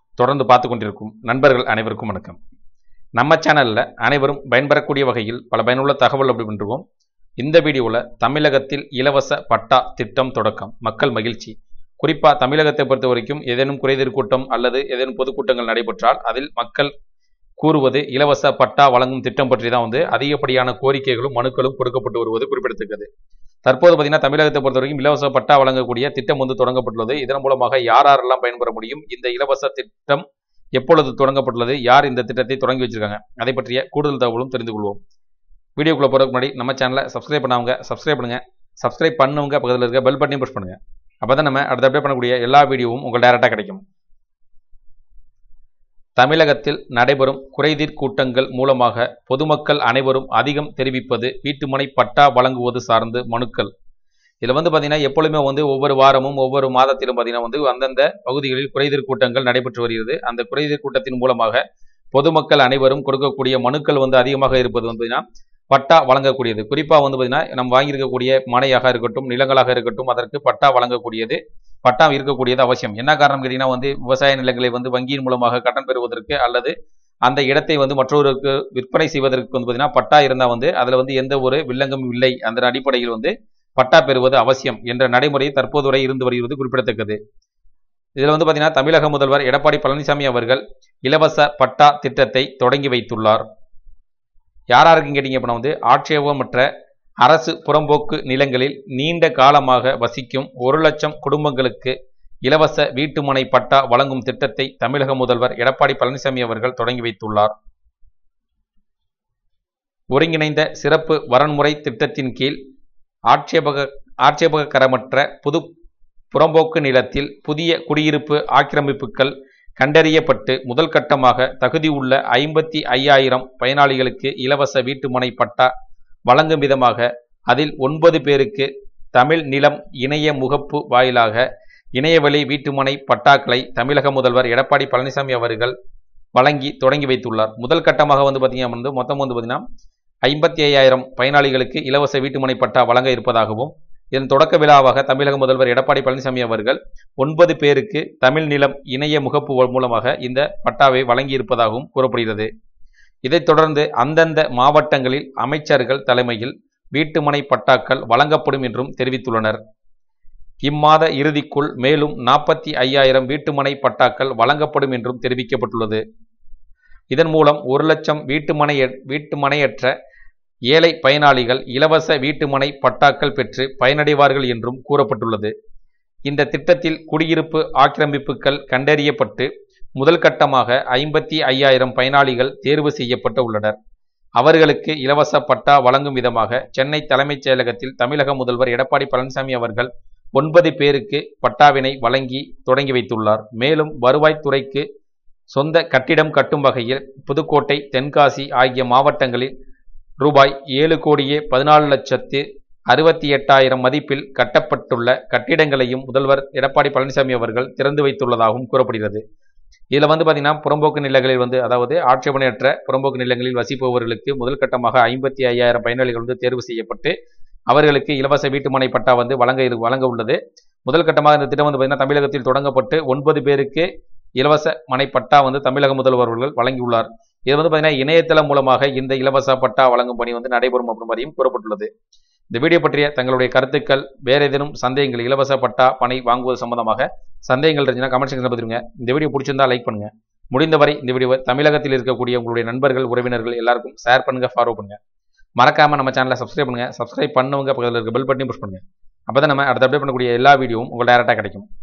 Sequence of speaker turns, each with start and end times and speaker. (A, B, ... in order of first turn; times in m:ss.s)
0:00.2-0:02.4 A
0:03.2-0:06.8 A
0:07.4-0:16.9 A
0:17.6-0:23.1 A
0:23.6-0:30.2 A
0:30.8-0:35.0 A
0:35.8-0:43.8 A
0:46.2-0:53.7 A
0:54.4-1:01.6 A
1:02.1-1:16.7 A
1:17.2-1:27.2 A
1:28.2-1:33.4 A
1:34.7-1:36.7 A
1:37.2-1:47.5 A
1:50.1-1:52.6 A
1:53.3-1:55.7 A
1:56.3-2:05.7 A
2:06.3-2:11.4 A
2:12.0-2:15.7 A
2:16.4-2:19.6 A
2:20.2-2:32.5 A
2:33.2-2:39.6 A
2:40.6-2:46.0 A
2:47.1-2:49.9 A
2:50.7-2:55.5 A
2:56.2-3:03.8 A
3:04.4-3:14.8 A
3:15.5-3:19.5 A
3:20.2-3:29.2 A
3:29.9-3:37.1 A
3:37.7-3:43.9 A
3:44.4-3:51.9 A
3:52.5-4:05.0 A
4:05.6-4:11.7 A